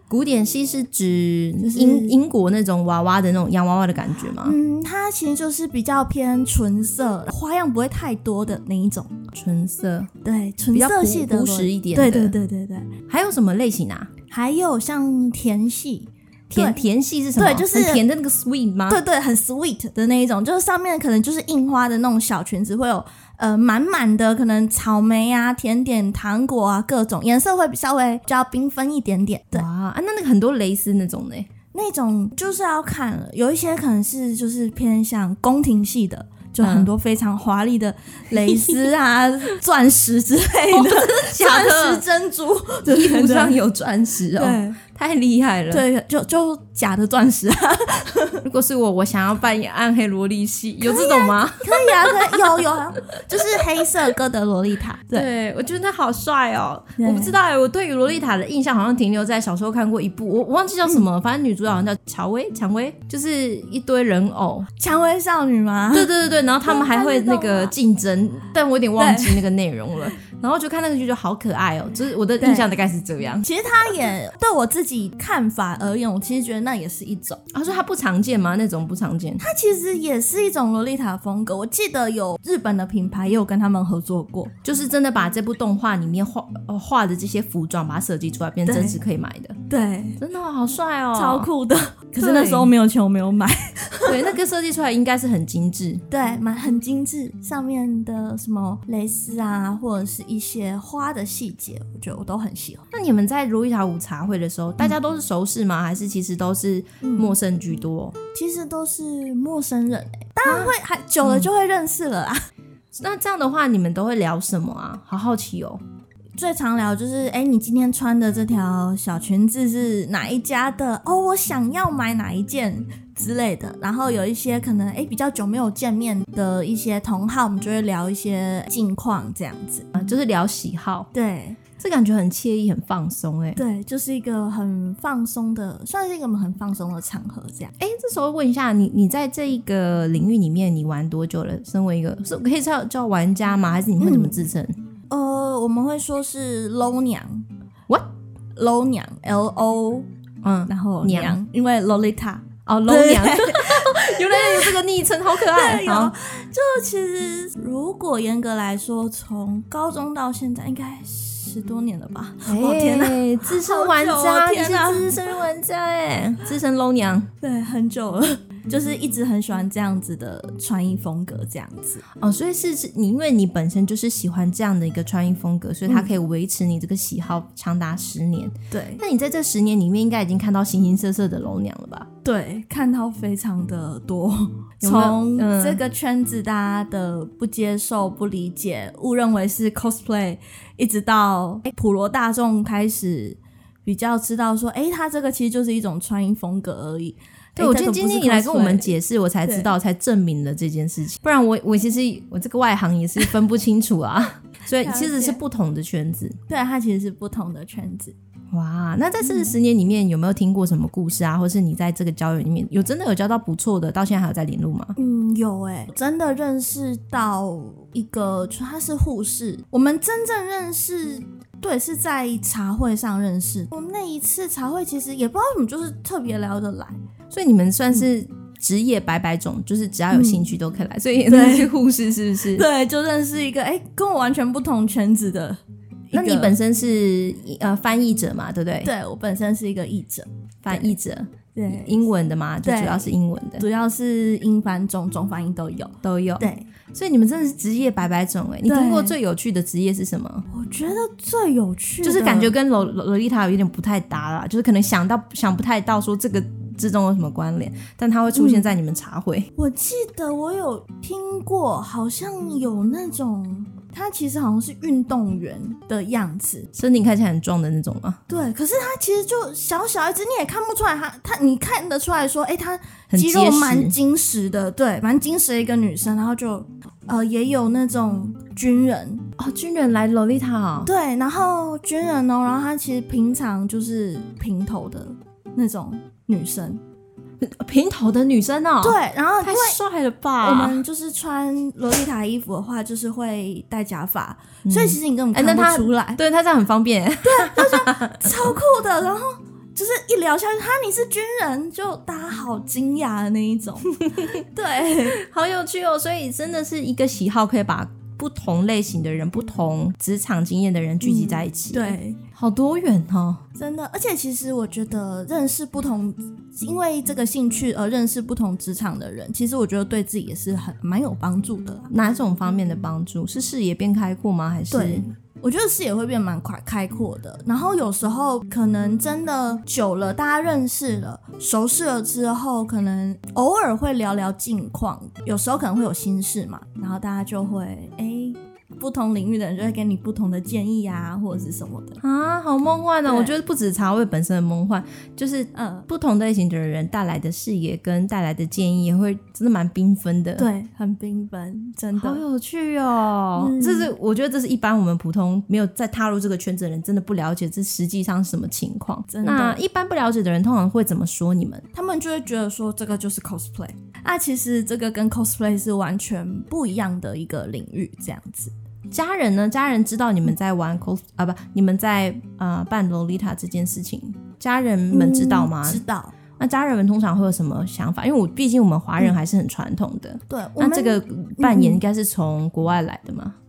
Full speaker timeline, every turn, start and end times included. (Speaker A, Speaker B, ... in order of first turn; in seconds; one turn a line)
Speaker A: 0.1-4.5
Speaker B: 1.6-2.2
Speaker B: 4.4-9.3
Speaker A: 9.3-10.1
Speaker B: 10.2-12.9
Speaker A: 10.7-12.4
Speaker A: 13.1-14.1
Speaker B: 14.3-16.8
Speaker A: 16.5-19.0
Speaker B: 17.4-18.0
Speaker B: 18.9-29.7
Speaker A: 29.5-31.5
Speaker B: 31.7-43.6
Speaker A: 36.6-36.9
Speaker A: 38.3-38.8
Speaker A: 40.7-42.0
Speaker A: 42.8-45.9
Speaker B: 44.3-44.8
Speaker B: 45.7-48.4
Speaker A: 48.4-52.6
Speaker B: 50.8-55.3
Speaker A: 53.1-53.9
Speaker A: 55.1-64.7
Speaker B: 57.0-57.3
Speaker B: 64.8-66.1
Speaker A: 65.9-73.5
Speaker B: 66.6-67.8
Speaker B: 69.0-69.4
Speaker B: 72.4-72.7
Speaker B: 73.4-77.4
Speaker A: 77.5-79.4
Speaker B: 79.4-84.5
Speaker A: 84.6-89.6
Speaker B: 88.7-89.0
Speaker B: 89.7-90.2
Speaker A: 90.2-91.5
Speaker B: 91.1-94.3
Speaker A: 92.2-92.7
Speaker A: 94.0-96.0
Speaker B: 96.1-102.8
Speaker A: 102.9-108.2
Speaker B: 107.0-107.3
Speaker B: 108.3-112.4
Speaker A: 110.5-111.5
Speaker A: 112.9-115.8
Speaker B: 116.4-129.9
Speaker A: 129.9-131.1
Speaker B: 131.1-131.6
Speaker A: 131.8-133.6
Speaker B: 133.6-137.7
Speaker A: 137.8-144.7
Speaker B: 144.0-144.5
Speaker B: 145.1-147.4
Speaker B: 148.6-150.1
Speaker A: 150.4-151.4
Speaker B: 150.7-154.8
Speaker A: 152.7-156.1
Speaker B: 155.3-165.2
Speaker A: 162.4-167.3
Speaker B: 167.4-172.0
Speaker A: 172.2-182.1
Speaker B: 175.8-176.1
Speaker B: 178.7-179.0
Speaker B: 182.2-199.7
Speaker A: 184.8-185.8
Speaker A: 197.6-206.4
Speaker B: 204.8-205.4
Speaker B: 206.5-208.1
Speaker A: 208.5-214.9
Speaker B: 209.2-209.5
Speaker B: 214.9-227.0
Speaker A: 227.3-232.7
Speaker B: 230.1-230.5
Speaker B: 231.3-231.7
Speaker B: 232.5-235.6
Speaker B: 236.1-236.5
Speaker A: 236.1-238.9
Speaker B: 238.8-240.9
Speaker A: 240.6-243.7
Speaker B: 241.5-242.0
Speaker B: 242.6-246.7
Speaker A: 246.0-250.4
Speaker B: 248.7-249.2
Speaker B: 250.5-252.5
Speaker A: 252.0-259.5
Speaker B: 258.3-258.7
Speaker B: 259.5-266.7
Speaker A: 266.7-268.2
Speaker B: 268.3-279.3
Speaker A: 273.1-273.9
Speaker A: 279.4-280.9
Speaker B: 280.8-286.8
Speaker A: 287.4-290.8
Speaker B: 288.8-289.8
Speaker B: 290.4-296.2
Speaker A: 294.6-298.5
Speaker B: 297.2-305.2
Speaker A: 304.0-304.4
Speaker A: 305.1-313.4
Speaker B: 311.0-312.2
Speaker B: 313.5-321.9
Speaker A: 321.9-325.1
Speaker B: 324.7-342.0
Speaker A: 342.0-350.5
Speaker B: 343.0-343.3
Speaker B: 345.5-345.9
Speaker B: 350.4-352.2
Speaker A: 352.0-361.6
Speaker B: 353.4-353.9
Speaker B: 359.1-359.6
Speaker B: 361.7-368.5
Speaker A: 368.9-375.8
Speaker B: 374.9-376.1
Speaker A: 376.4-383.4
Speaker B: 380.3-381.8